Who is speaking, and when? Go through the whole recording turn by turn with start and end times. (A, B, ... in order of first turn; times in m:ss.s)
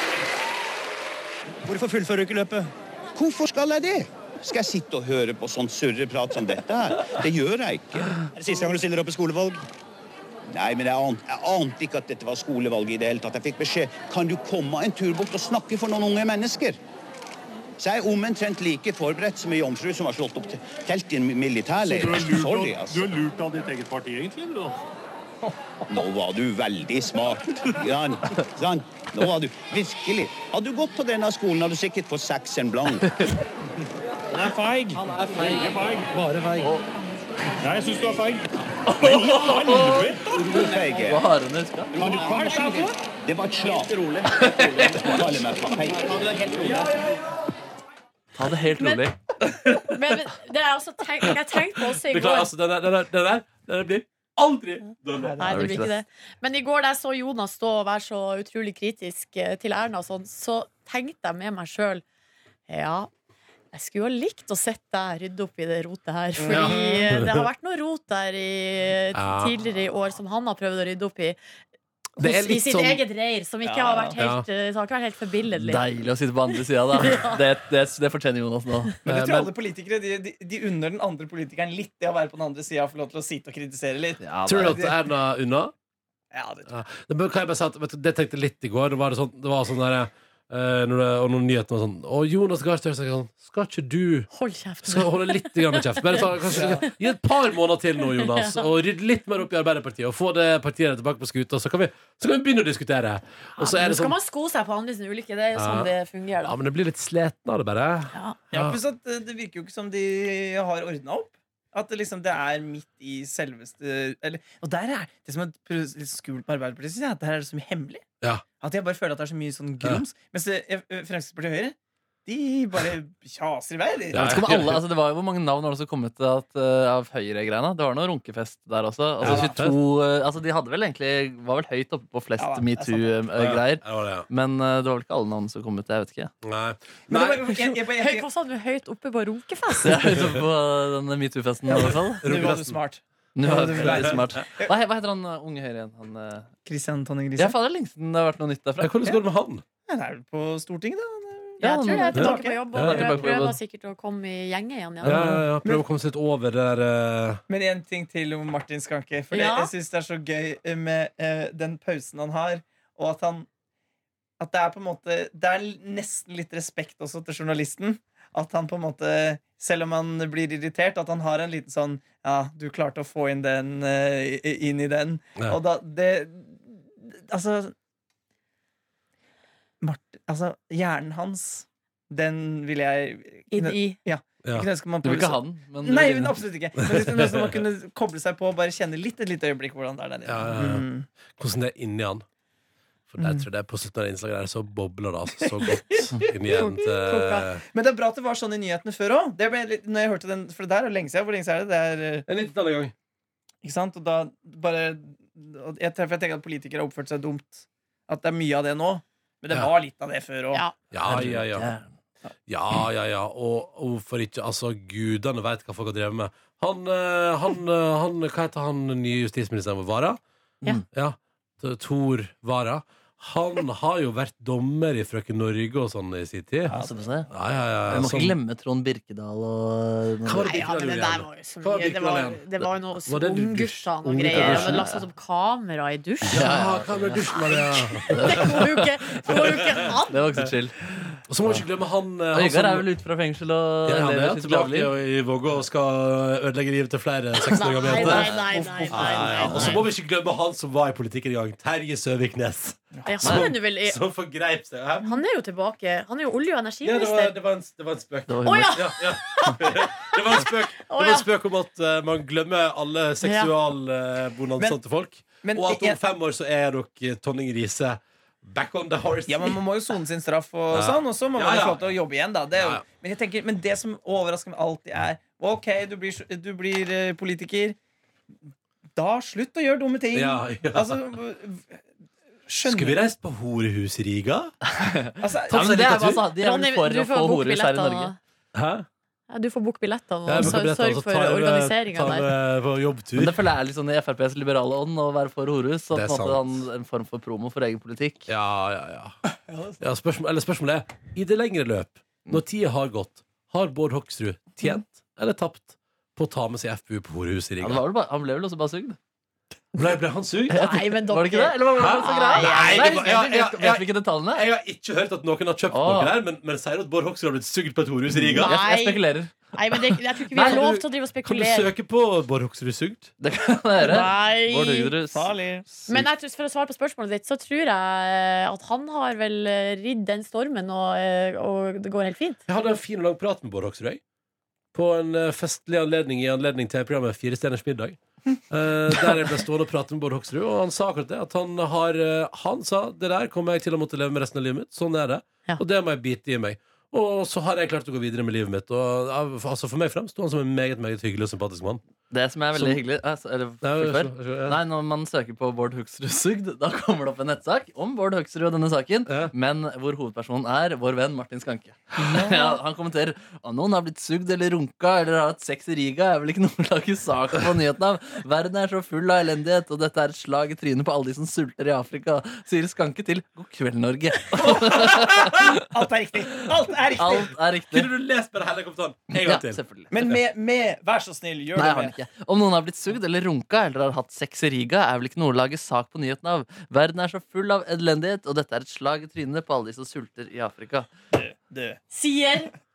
0:01.6-0:02.7 A
0:03.1-0:08.2 B
0:08.4-0:09.6 A
0:10.5-0:16.8 B
0:17.8-0:23.1 B
0:21.8-0:24.8 C
0:25.9-0:33.3 B
0:34.3-0:36.7 C
0:37.6-0:38.4 C
0:38.9-0:42.0 D
0:39.0-0:39.5 B
0:39.6-0:40.2 C
0:40.3-0:41.2 B
0:42.0-0:42.9 C
0:42.0-0:44.2 B
0:45.0-0:46.2 B
0:48.4-0:49.2 D
0:48.8-0:49.1 E
0:49.5-0:50.0 F
0:49.8-0:52.5 E
0:51.9-0:55.6 F
0:55.2-0:55.6 G
0:55.4-1:02.0 E
0:55.4-0:55.9 D
1:02.7-1:03.1 E
1:03.7-1:11.4 E
1:06.4-1:07.2 G
1:06.5-1:07.4 F
1:09.1-1:09.5 F
1:12.2-1:13.0 F
1:12.2-1:15.8 E
1:13.6-1:14.2 G
1:14.2-1:14.4 F
1:15.6-1:19.0 D
1:17.0-1:17.4 E
1:19.0-1:24.9 G
1:19.0-1:19.5 F
1:24.2-1:24.8 D
1:24.4-1:25.7 F
1:26.3-1:26.7 G
1:26.7-1:34.3 F
1:34.3-1:36.3 E
1:34.8-1:44.1 F
1:36.4-1:36.9 G
1:38.2-1:38.7 E
1:43.6-1:46.5 E
1:45.5-1:45.9 F
1:46.4-1:48.8 F
1:48.5-1:58.1 G
1:58.6-2:04.4 G
2:04.1-2:04.8 F
2:04.1-2:16.3 D
2:09.2-2:09.8 F
2:09.2-2:09.6 G
2:12.4-2:13.3 G
2:13.3-2:14.3 F
2:16.4-2:17.4 F
2:17.1-2:18.2 G
2:17.7-2:20.1 E
2:19.8-2:22.2 D
2:21.7-2:24.7 G
2:22.2-2:22.8 F
2:23.3-2:26.5 D
2:23.7-2:24.5 F
2:26.6-2:27.6 G
2:27.4-2:29.1 D
2:28.8-2:29.6 F
2:29.9-2:32.6 G
2:31.6-2:33.6 D
2:31.6-2:35.4 E
2:32.1-2:33.5 F
2:35.0-2:37.4 F
2:35.1-2:35.8 G
2:37.5-2:43.5 G
2:39.3-2:39.7 E
2:44.4-2:57.7 G
2:59.8-3:11.1 G
3:03.5-3:04.0 E
3:05.0-3:06.4 D
3:06.8-3:07.5 F
3:10.2-3:12.2 F
3:13.1-3:17.6 F
3:13.2-3:13.4 G
3:15.5-3:16.6 G
3:16.5-3:17.4 E
3:17.6-3:22.2 G
3:22.3-3:22.9 F
3:23.6-3:30.6 G
3:30.9-3:31.7 F
3:31.0-3:31.8 D
3:32.5-3:40.2 F
3:40.9-3:46.8 F
3:46.7-3:47.3 D
3:47.3-3:48.4 F
3:47.9-3:50.5 D
3:50.2-3:54.9 F
3:50.3-3:56.5 E
3:54.3-3:55.0 D
3:56.3-3:58.8 F
3:56.3-3:57.3 D
3:57.3-4:00.4 E
3:58.0-4:01.6 D
3:59.3-3:59.8 F
4:01.2-4:02.9 F
4:02.3-4:04.9 D
4:03.8-4:15.2 F
4:07.5-4:09.8 E
4:07.9-4:09.8 G
4:07.9-4:08.4 D
4:09.4-4:09.8 D
4:12.9-4:13.2 G
4:13.0-4:14.0 E
4:13.2-4:13.5 D
4:15.0-4:17.3 E
4:16.8-4:29.6 F
4:18.3-4:18.8 D
4:18.4-4:20.2 E
4:20.8-4:21.3 E
4:23.2-4:23.5 E
4:25.4-4:26.0 G
4:29.3-4:37.8 G
4:30.7-4:31.9 F
4:32.5-4:32.9 F
4:39.0-4:41.8 G
4:40.1-4:41.0 F
4:42.5-4:43.0 G
4:42.6-4:44.5 F
4:44.7-4:48.1 D
4:45.2-4:46.0 G
4:45.5-4:46.3 F
4:46.2-4:48.2 E
4:48.5-4:48.8 F
4:49.3-4:52.3 E
4:50.2-4:53.4 F
4:53.2-4:58.3 D
4:55.9-4:56.5 F
4:58.3-4:59.2 F
4:59.5-4:59.8 G
4:59.8-5:07.8 F
5:07.6-5:09.0 D
5:09.7-5:10.8 F
5:10.5-5:14.5 D
5:10.6-5:13.0 E
5:11.7-5:18.6 F
5:15.7-5:16.2 D
5:18.2-5:20.8 D
5:18.4-5:21.7 E
5:20.3-5:23.1 F
5:23.2-5:26.0 D
5:23.8-5:24.9 E
5:25.1-5:25.7 G
5:25.9-5:32.4 E
5:32.5-5:34.0 F
5:34.7-5:38.0 F
5:38.5-5:51.8 F
5:52.1-6:15.5 D
5:52.5-5:52.8 F
5:53.6-5:54.6 F
5:59.1-5:59.3 F
6:14.5-6:15.3 F
6:15.4-6:17.3 G
6:17.0-6:17.9 D
6:17.7-6:20.2 F
6:19.2-6:19.9 D
6:19.9-6:22.0 G
6:21.6-6:30.9 D
6:31.1-6:31.8 G
6:31.9-6:32.5 E